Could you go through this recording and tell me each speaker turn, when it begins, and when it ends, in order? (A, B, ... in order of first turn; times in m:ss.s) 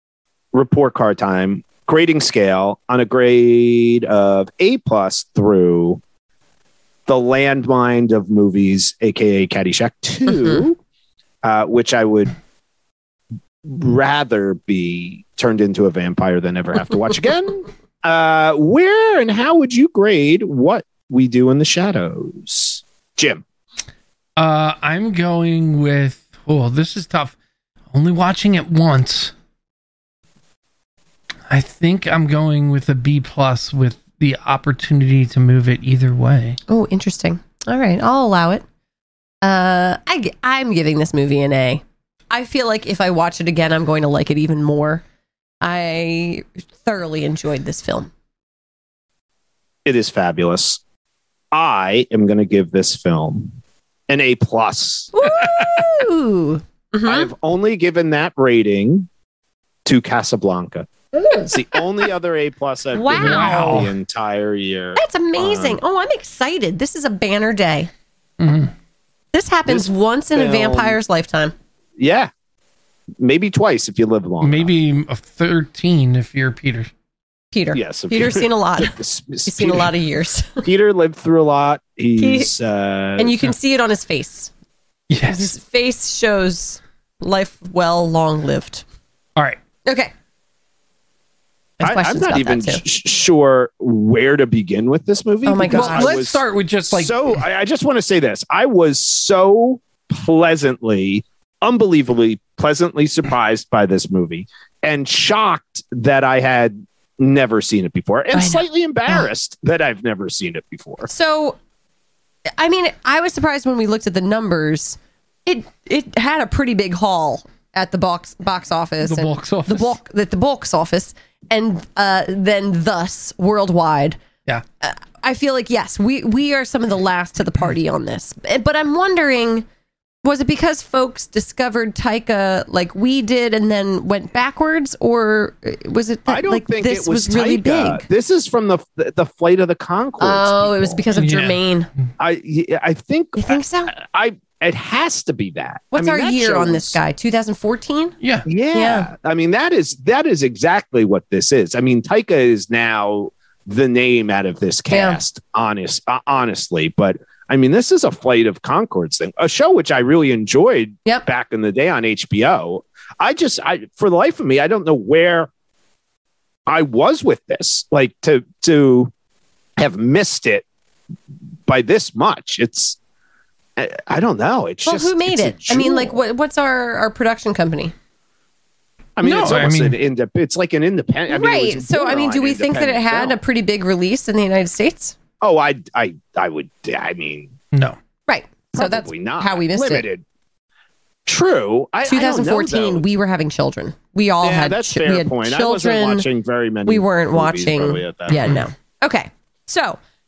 0:00.5-0:06.0 A
0:07.1-0:10.8 A
0:11.4-0:12.3 A
0:13.6-0:23.4 A
0:24.4-0:27.3 B
0:27.9-0:29.3 B
0:31.5-0:36.6 B
0:36.7-0:38.6 C
0:39.4-0:45.0 C
0:45.6-0:48.1 C
0:49.8-0:50.8 A
0:51.5-0:53.5 A
0:54.1-0:55.1 A
0:55.1-0:57.3 C
0:57.0-0:59.1 A
0:59.8-1:00.9 A
1:01.2-1:01.8 C
1:01.4-1:05.8 A
1:02.9-1:03.8 C
1:03.2-1:03.9 B
1:05.0-1:07.9 C
1:08.4-1:08.7 B
1:09.3-1:11.5 C
1:09.7-1:11.0 A
1:12.0-1:12.3 A
1:13.2-1:14.7 A
1:14.4-1:16.9 B
1:17.5-1:20.6 C
1:17.7-1:19.9 A
1:20.6-1:23.4 A
1:22.2-1:22.5 C
1:23.2-1:24.5 C
1:25.1-1:25.5 B
1:25.2-1:28.8 C
1:29.8-1:30.1 C
1:31.8-1:32.8 C
1:31.8-1:51.1 A
1:35.4-1:36.2 C
1:35.7-1:37.2 B
1:48.3-1:49.3 C
1:51.1-1:51.6 C
1:52.6-2:04.2 C
1:59.0-2:00.0 B
2:04.8-2:09.6 C
2:10.2-2:18.0 C
2:16.3-2:21.0 A
2:20.2-2:21.9 C
2:21.1-2:21.6 B
2:22.2-2:27.0 A
2:23.4-2:23.9 C
2:25.9-2:28.1 C
2:28.2-2:28.4 B
2:28.4-2:45.5 A
2:28.7-2:29.1 C
2:34.9-2:35.2 C
2:46.7-2:49.1 A
2:49.8-2:50.6 A
2:51.7-2:53.0 A
2:53.8-2:56.2 A
2:54.8-2:57.9 C
2:59.2-3:03.4 A
2:59.2-3:00.0 B
3:01.3-3:05.2 C
3:05.4-3:07.5 A
3:08.3-3:10.1 C
3:08.7-3:10.2 A
3:11.2-3:13.1 A
3:12.0-3:16.2 C
3:14.4-3:18.6 A
3:16.8-3:20.0 C